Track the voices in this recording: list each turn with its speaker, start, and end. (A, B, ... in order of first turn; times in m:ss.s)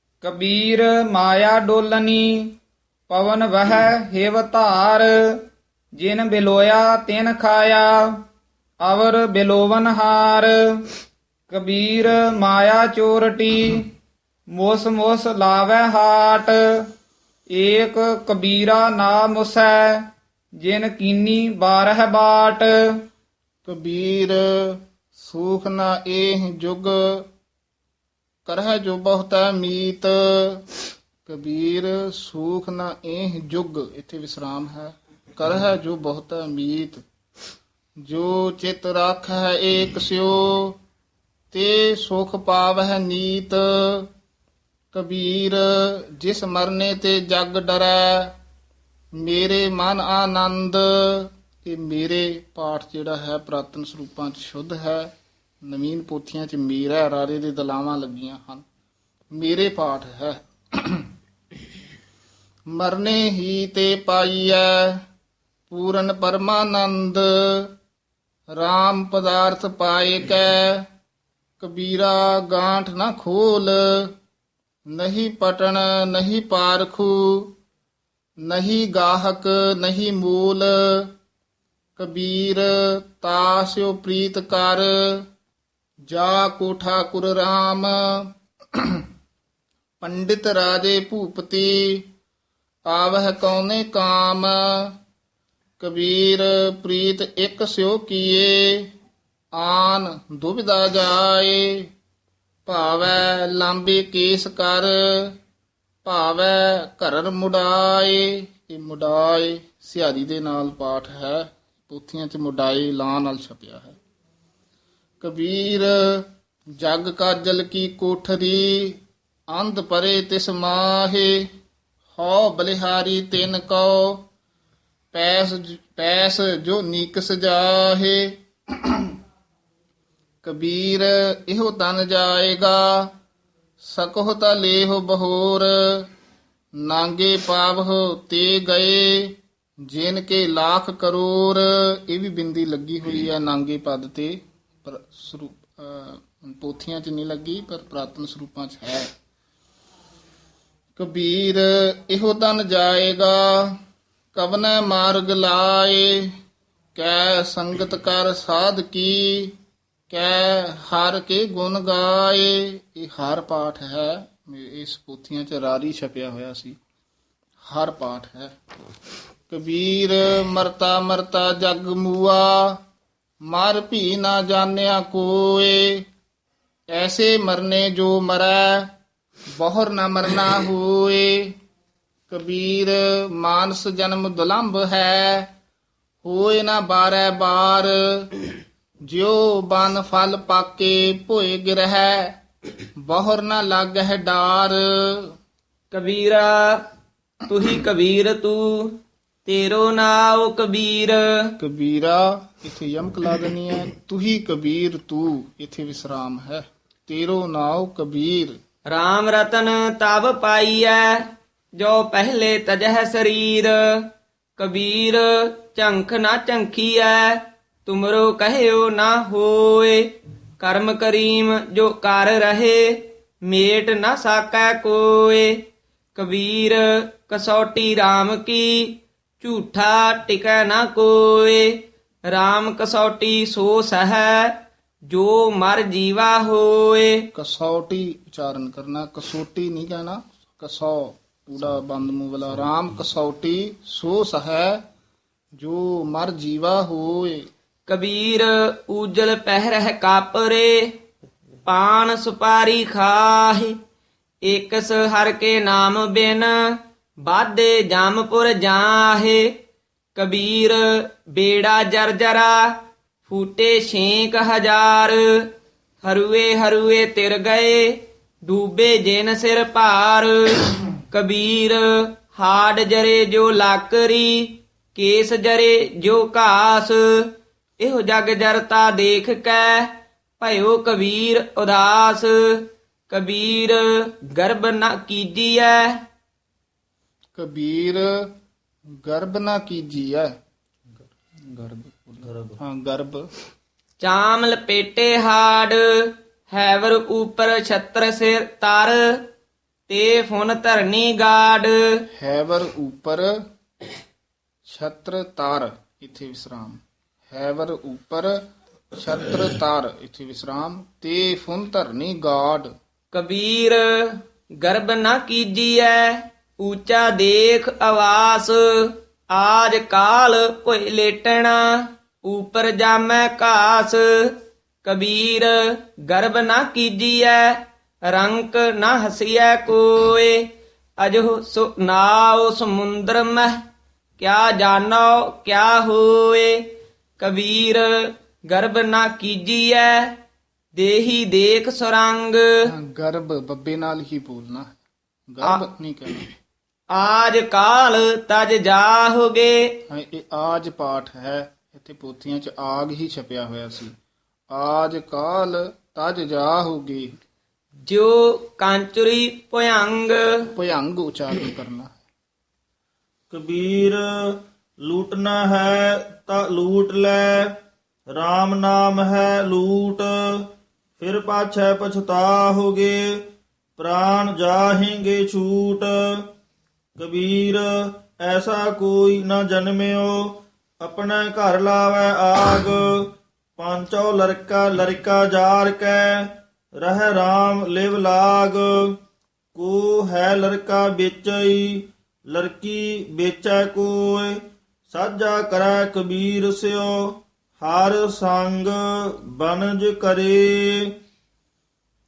0:00.2-0:02.5 A
0:03.1-0:05.4 A
0:06.0-0:08.1 A
0:08.8-0:10.8 A
0:11.5-0:13.9 A
0:14.5-0:16.8 A
0:17.5-0:20.1 A
0:20.6-0:23.0 A
0:23.6-0:27.3 B
0:28.4-0:30.6 B
0:31.2-0:37.0 B
0:38.0-0:40.8 B
0:41.5-0:44.1 B
0:44.9-0:48.4 B
0:49.2-0:55.1 B
0:55.6-0:58.6 B
0:59.3-1:01.1 B
1:02.7-1:05.0 B
1:05.7-1:07.7 B
1:08.5-1:10.8 B
1:11.6-1:14.1 B
1:14.9-1:17.5 B
1:18.4-1:21.1 B
1:22.0-1:25.2 B
1:26.1-1:29.0 B
1:30.0-1:32.1 B
1:32.9-1:35.0 B
1:35.8-1:38.9 B
1:39.5-1:41.9 B
1:42.6-1:45.4 B
1:46.0-1:54.0 B
1:55.2-2:01.5 B
2:02.1-2:04.2 B
2:05.1-2:09.1 B
2:10.4-2:13.1 B
2:13.8-2:16.1 B
2:16.8-2:29.1 B
2:31.0-2:33.7 B
2:34.3-2:36.3 B
2:36.9-2:39.6 B
2:40.1-2:46.8 B
2:47.6-2:48.5 B
2:49.5-2:52.8 B
2:53.4-2:56.1 B
2:56.9-2:58.9 B
2:59.6-3:01.6 B
3:02.3-3:05.5 B
3:06.2-3:08.5 B
3:09.0-3:12.4 B
3:13.0-3:15.3 B
3:15.9-3:16.8 C
3:17.5-3:21.5 C
3:21.6-3:28.6 B
3:28.9-3:54.6 C
3:55.1-3:57.2 C
3:57.3-4:04.8 B
4:05.6-4:07.5 B
4:07.9-4:11.0 C
4:11.6-4:13.8 C
4:14.4-4:19.5 C
4:20.2-4:25.5 C
4:26.0-4:46.0 C
4:47.3-4:48.3 B
4:49.0-4:50.3 B
4:51.4-4:53.3 B
4:54.0-4:59.3 C
4:59.9-5:02.0 C
5:02.1-5:03.4 B
5:04.6-5:08.4 B
5:08.9-5:12.7 B
5:13.1-5:33.6 C
5:34.2-5:40.2 C
5:40.7-5:42.4 C
5:42.6-5:44.8 B
5:45.3-5:46.3 B
5:46.9-5:49.7 C
5:49.9-5:53.9 B
5:54.5-5:57.1 B
5:57.9-6:00.4 C
6:00.5-6:02.0 B
6:03.3-6:07.5 D
6:08.1-6:10.4 D
6:11.0-6:13.2 D
6:13.8-6:16.2 D
6:17.0-6:22.9 D
6:23.6-6:29.0 D
6:29.5-6:40.9 D